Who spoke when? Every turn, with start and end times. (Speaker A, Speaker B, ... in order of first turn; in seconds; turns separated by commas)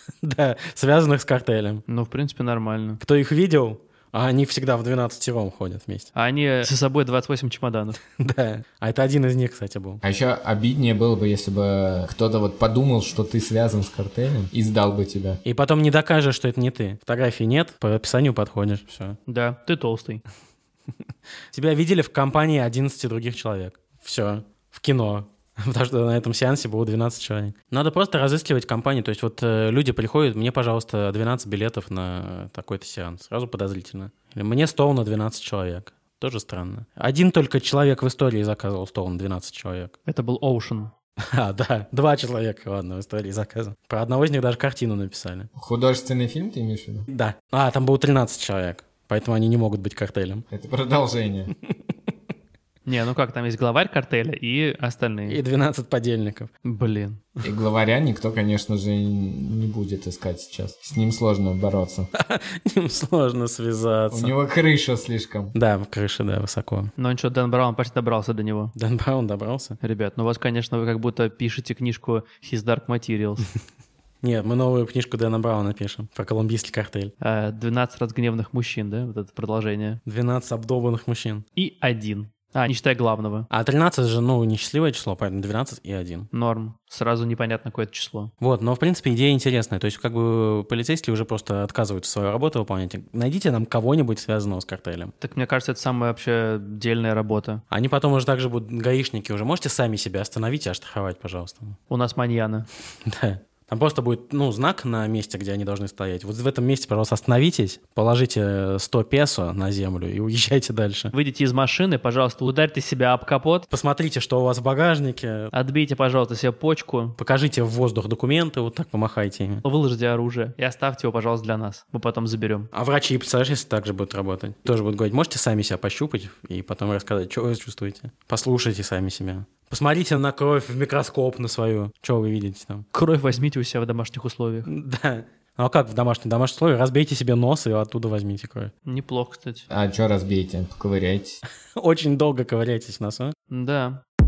Speaker A: 0.2-1.8, Speaker B: 1.9-3.0, Speaker A: 3.0-6.1, Speaker B: 6.1-8.0, Speaker A: 8.2-10.0, Speaker C: 10.0-15.4, Speaker A: 15.4-19.2, Speaker B: 19.3-20.2, Speaker A: 21.5-39.9, Speaker B: 40.1-40.9, Speaker A: 41.2-45.5, Speaker C: 45.5-47.1, Speaker A: 47.1-50.4, Speaker C: 50.5-51.5, Speaker B: 52.9-55.4, Speaker A: 55.2-56.5, Speaker B: 56.6-57.2, Speaker C: 57.4-62.1, Speaker A: 62.1-64.3, Speaker C: 64.1-65.5, Speaker A: 65.5-66.9, Speaker B: 67.0-68.7, Speaker A: 68.7-69.8, Speaker B: 69.8-73.5, Speaker A: 74.2-77.1, Speaker B: 77.2-80.0, Speaker A: 80.0-81.4, Speaker B: 81.5-83.5, Speaker A: 83.5-86.3, Speaker B: 86.3-88.3, Speaker A: 88.4-95.1, Speaker B: 95.2-97.6, Speaker A: 97.7-101.8, Speaker B: 101.9-102.7, Speaker A: 103.0-111.1, Speaker B: 111.1-113.7, Speaker A: 113.7-115.5, Speaker B: 115.5-117.2, Speaker A: 117.2-119.6, Speaker B: 119.6-122.7, Speaker A: 122.7-132.8, Speaker B: 132.9-134.7, Speaker A: 134.7-138.7, Speaker B: 138.8-139.7, Speaker C: 139.7-141.4, Speaker A: 141.8-143.3, Speaker B: 143.5-144.0